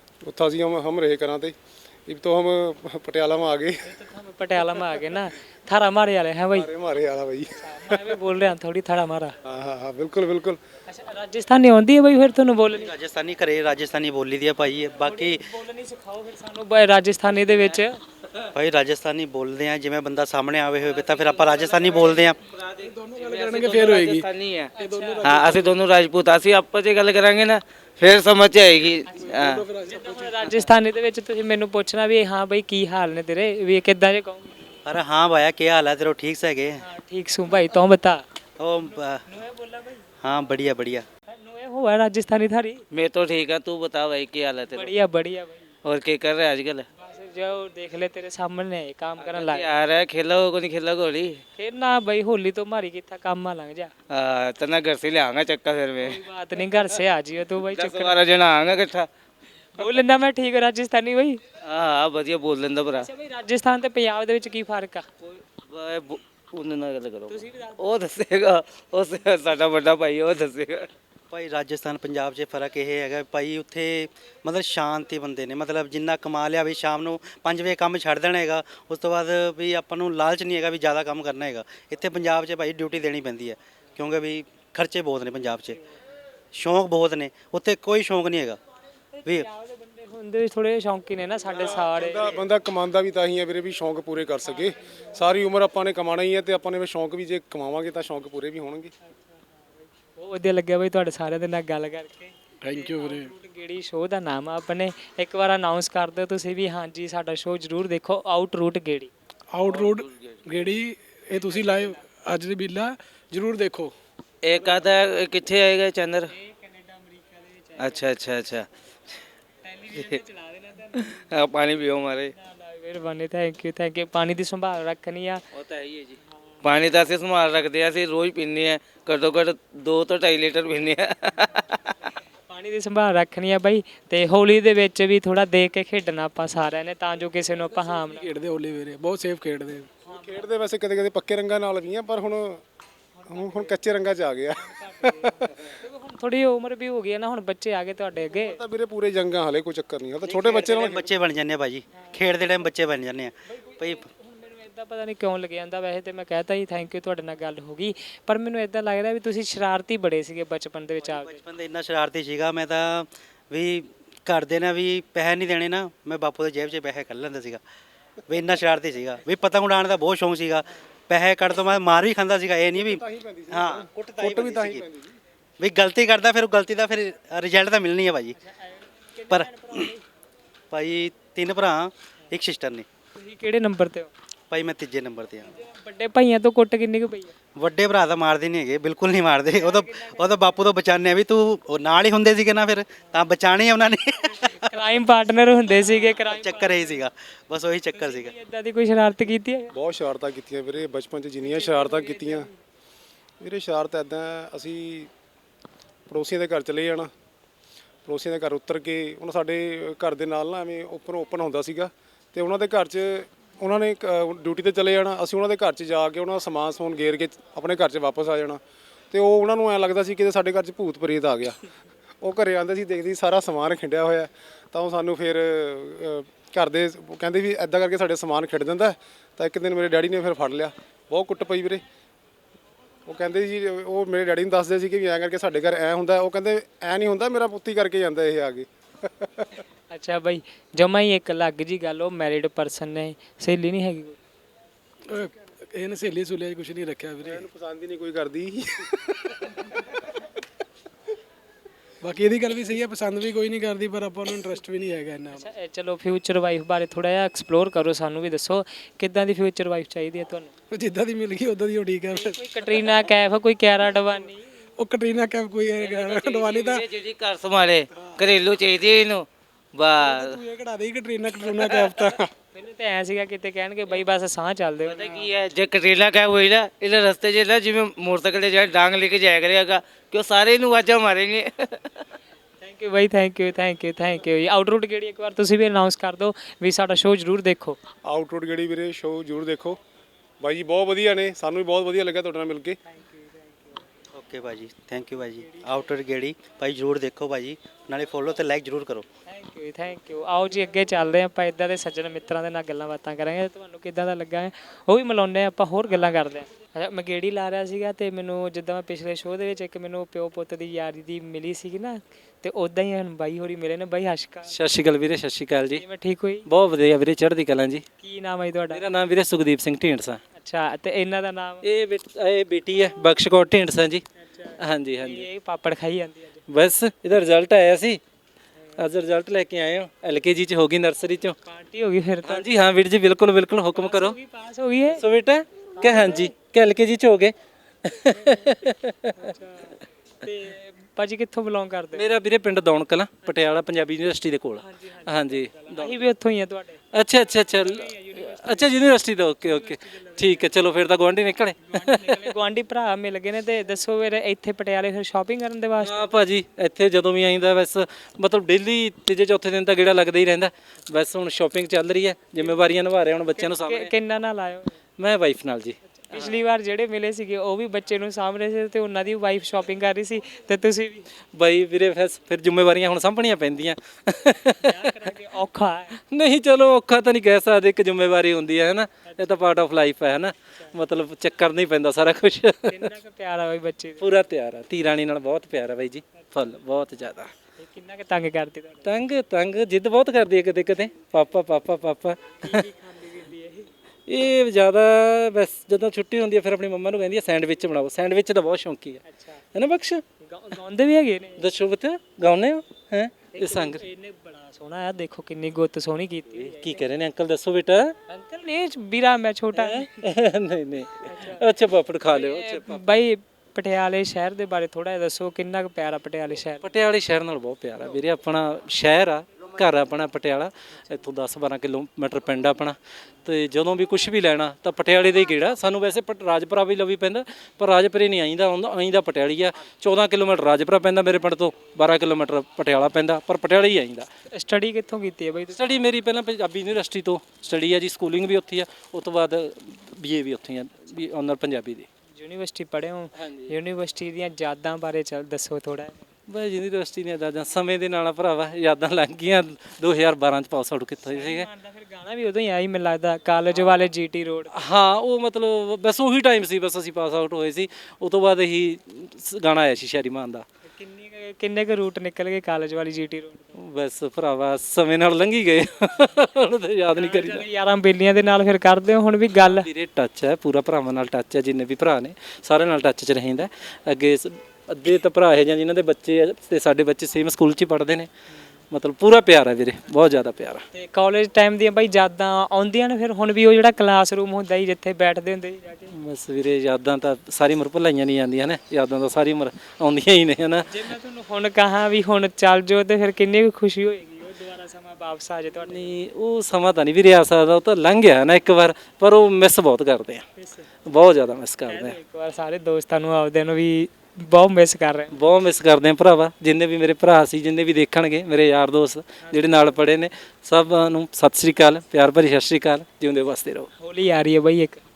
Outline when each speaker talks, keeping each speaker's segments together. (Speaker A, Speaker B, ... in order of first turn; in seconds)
Speaker A: 0.2-3.9, 6.5-8.2, 9.4-10.6, 91.5-98.9, 140.1-142.6, 143.3-145.6, 148.3-151.1, 172.7-175.1, 199.7-202.5, 203.4-205.1, 206.1-207.1, 208.1-218.6, 219.1-221.6, 222.2-231.8, 233.1-239.5, 247.2-249.1, 288.0-289.8, 290.4-292.8
Speaker B: 3.8-6.7, 7.6-9.4, 10.9-12.9, 15.1-18.0, 24.9-25.1, 29.9-34.6, 36.8-38.2, 39.3-40.0, 41.3-42.8, 44.7-45.7, 47.0-49.7, 51.6-53.9, 56.0-58.1, 59.8-61.4, 63.0-65.1, 67.3-67.8, 89.2-92.3, 100.1-109.1, 111.4-112.0, 116.3-118.0, 119.7-121.2, 122.4-125.4, 132.5-138.2, 143.2-143.6, 144.7-148.6, 153.5-161.3, 178.5-180.0, 183.2-184.1, 185.5-187.3, 189.6-190.5, 194.2-197.0, 197.9-199.7, 201.4-202.5, 239.9-244.2, 255.3-260.5, 262.2-264.4, 272.5-275.2, 282.6-287.8, 292.9-293.8, 299.3-314.6, 315.8-316.5, 318.0-318.8, 320.4-321.6, 324.2-326.4, 331.4-332.5, 333.8-335.0, 335.8-336.3, 338.1-342.1, 344.6-346.8, 347.6-348.7, 349.4-350.5, 351.7-356.1, 363.4-364.7, 366.1-371.1, 374.6-376.0, 379.1-379.5, 382.7-384.0, 387.6-388.9, 392.4-393.7, 399.1-399.4, 400.2-401.4, 403.3-406.8, 408.1-410.0, 411.1-411.4, 412.1-416.7, 434.3-435.6, 442.2-446.0, 451.1-454.5, 460.7-463.5, 466.9-469.7, 480.7-485.9, 490.7-495.9, 500.4-500.7, 501.7-505.1, 509.2-509.8, 513.8-514.8
Speaker C: 12.7-15.4, 18.5-22.4, 34.9-36.8, 38.6-39.2, 40.2-41.1, 71.3-85.8, 86.5-88.6, 150.2-154.0, 161.0-167.6, 168.3-174.8, 175.6-178.4, 179.3-179.9, 180.7-182.9, 184.5-185.5, 187.6-194.7, 195.9-198.3, 294.1-299.1
Speaker D: 21.2-29.7, 42.9-44.9, 45.8-46.9, 49.2-51.4, 54.1-56.2, 57.7-59.1, 61.6-63.1, 65.2-70.9, 109.7-110.4, 114.4-116.3, 117.8-118.7, 120.9-122.3, 125.5-131.9, 265.8-270.4, 271.6-272.1, 274.9-281.9
Speaker E: 22.8-25.8, 29.2-30.7, 102.6-103.3, 109.5-113.9, 137.8-139.9, 245.1-247.4, 252.0-255.5, 260.7-263.0, 264.8-266.9, 267.9-268.2, 270.0-272.3
Speaker F: 314.5-315.8, 316.5-317.8, 318.7-320.2, 321.6-324.1, 324.6-325.3, 326.5-328.0, 328.8-331.4, 332.2-334.2, 335.0-339.3, 341.9-346.1, 346.9-352.3, 355.8-363.9, 365.0-366.4, 371.4-374.9, 376.1-382.9, 384.0-387.3, 388.9-392.6, 394.1-399.0, 399.5-400.0, 401.4-403.8, 406.4-408.0, 409.5-412.8, 416.6-434.1, 435.5-441.9, 443.2-443.5, 446.3-451.5, 454.5-460.5, 463.6-467.4, 469.4-478.1, 478.7-480.7, 485.9-490.7, 495.7-500.3, 500.9-502.0, 505.1-513.7